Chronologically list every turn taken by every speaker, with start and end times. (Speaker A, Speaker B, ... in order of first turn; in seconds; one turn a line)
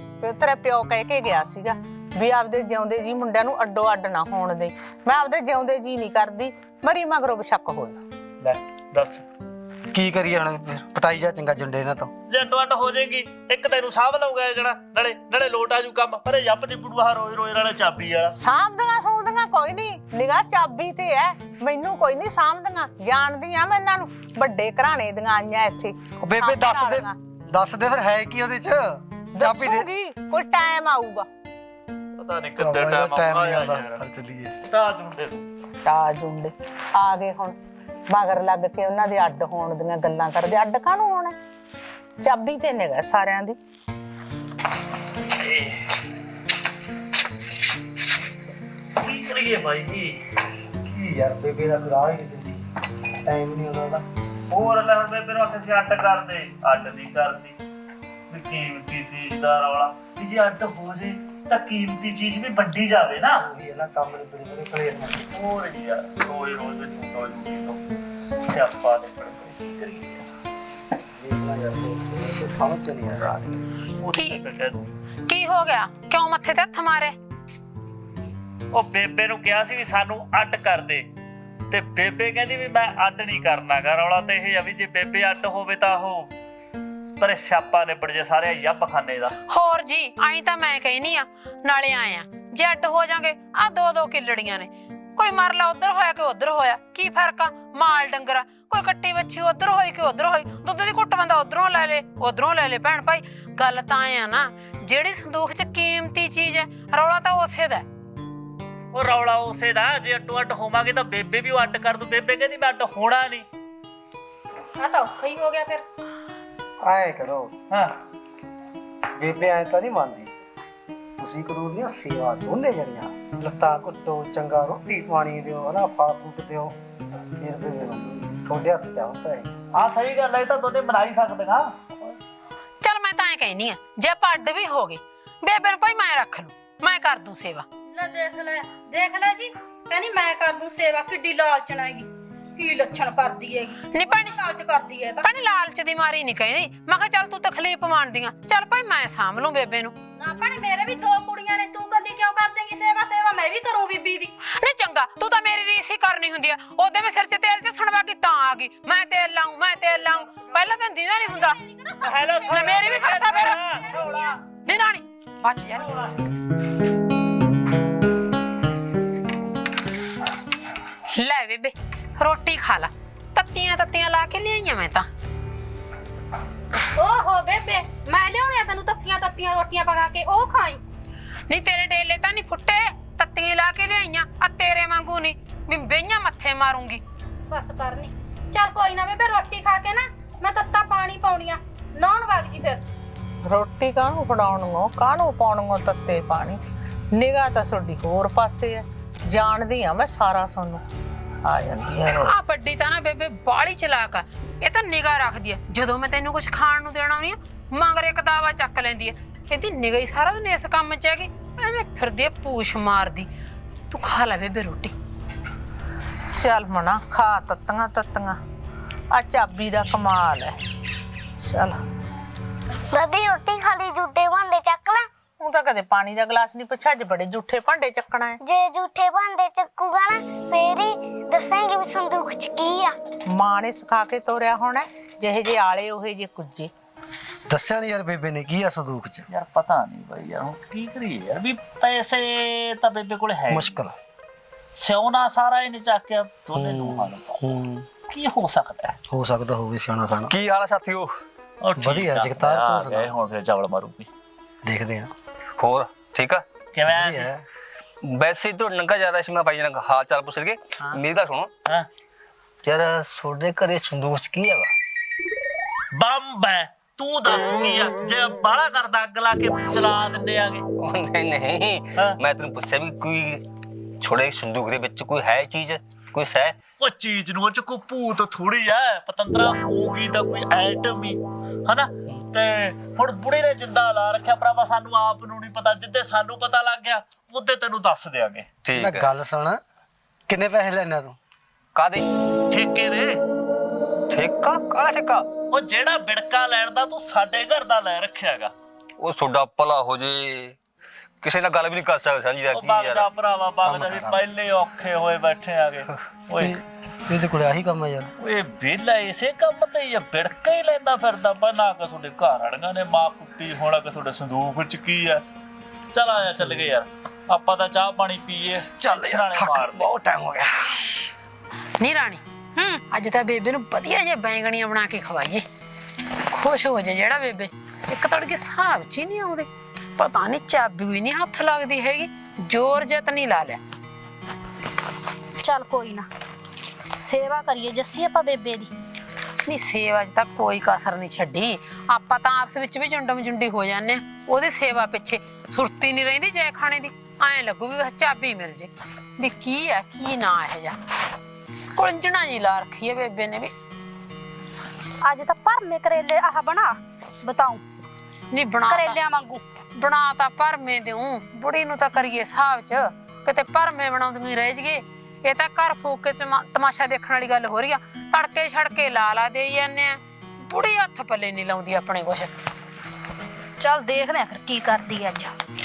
Speaker A: 0.2-8.0
Speaker B: 8.4-9.2
Speaker C: 9.9-12.1
Speaker B: 12.3-18.3
Speaker A: 18.4-27.2
Speaker C: 26.2-29.9
Speaker A: 29.4-31.3
Speaker B: 32.2-34.0
Speaker C: 32.6-34.5
Speaker B: 34.6-35.5
Speaker A: 35.9-37.6
Speaker A: 38.1-41.4
Speaker A: 42.2-43.6
Speaker B: 45.4-45.9
Speaker B: 49.0-50.2
Speaker C: 50.8-52.6
Speaker C: 53.2-54.0
Speaker B: 54.5-57.6
Speaker B: 58.3-63.4
Speaker C: 63.3-65.3
Speaker B: 65.3-67.8
Speaker B: 68.4-70.2
Speaker C: 71.2-73.6
Speaker B: 74.0-74.9
Speaker D: 74.2-74.4
Speaker D: 75.3-77.2
Speaker B: 78.7-81.1
Speaker B: 81.7-86.3
Speaker B: 87.2-89.4
Speaker D: 89.5-107.8
Speaker B: 108.9-113.5
Speaker E: 114.8-115.8
Speaker C: 116.8-117.5
Speaker C: 119.2-120.3
Speaker C: 121.2-126.8
Speaker C: 127.4-129.5
Speaker B: 129.7-132.2
Speaker D: 132.8-137.7
Speaker E: 137.9-145.3
Speaker D: 143.9-144.3
Speaker D: 145.2-149.9
Speaker E: 150.2-154.3
Speaker D: 154.5-161.6
Speaker E: 161.3-164.4
Speaker B: 162.0-164.4
Speaker D: 162.5-163.6
Speaker D: 164.7-165.9
Speaker B: 165.8-166.1
Speaker D: 171.1-175.1
Speaker E: 176.9-180.8
Speaker D: 181.5-187.0
Speaker E: 187.5-192.8
Speaker A: 193.4-196.6
Speaker A: 197.1-200.8
Speaker A: 201.4-202.3
Speaker D: 202.3-213.3
Speaker D: 213.9-214.9
Speaker A: 216.3-218.4
Speaker A: 219.1-220.6
Speaker A: 221.4-221.8
Speaker F: 222.9-225.1
Speaker A: 225.4-228.4
Speaker F: 228.4-232.9
Speaker A: 233.3-236.7
Speaker C: 237.5-239.3
Speaker B: 239.3-243.8
Speaker C: 243.5-243.9
Speaker B: 244.8-247.4
Speaker C: 246.5-247.9
Speaker B: 248.1-249.0
Speaker C: 249.1-250.3
Speaker G: 250.3-251.1
Speaker B: 251.6-254.1
Speaker C: 251.8-253.1
Speaker C: 254.6-255.1
Speaker G: 255.6-256.4
Speaker B: 256.8-257.3
Speaker C: 256.9-257.4
Speaker G: 258.1-261.5
Speaker G: 262.6-264.7
Speaker B: 265.9-270.6
Speaker G: 270.8-273.4
Speaker G: 274.0-276.6
Speaker B: 276.8-288.5
Speaker G: 288.6-289.1
Speaker C: 288.8-289.6
Speaker C: 290.3-291.2
Speaker G: 291.8-292.0
Speaker B: 292.5-293.2
Speaker G: 294.1-295.3
Speaker B: 295.5-298.5
Speaker G: 299.0-300.6
Speaker G: 301.2-303.1
Speaker B: 302.5-306.6
Speaker C: 303.6-304.2
Speaker C: 306.4-308.1
Speaker B: 308.2-315.2
Speaker B: 315.9-319.9
Speaker C: 316.4-316.7
Speaker C: 318.8-321.0
Speaker D: 321.8-322.2
Speaker E: 322.6-322.8
Speaker D: 322.9-325.4
Speaker D: 326.3-333.6
Speaker E: 335.4-336.1
Speaker E: 337.0-338.7
Speaker D: 339.4-350.8
Speaker D: 351.8-353.5
Speaker E: 355.0-357.6
Speaker D: 358.3-359.0
Speaker E: 358.7-359.4
Speaker D: 359.8-372.3
Speaker E: 373.6-375.3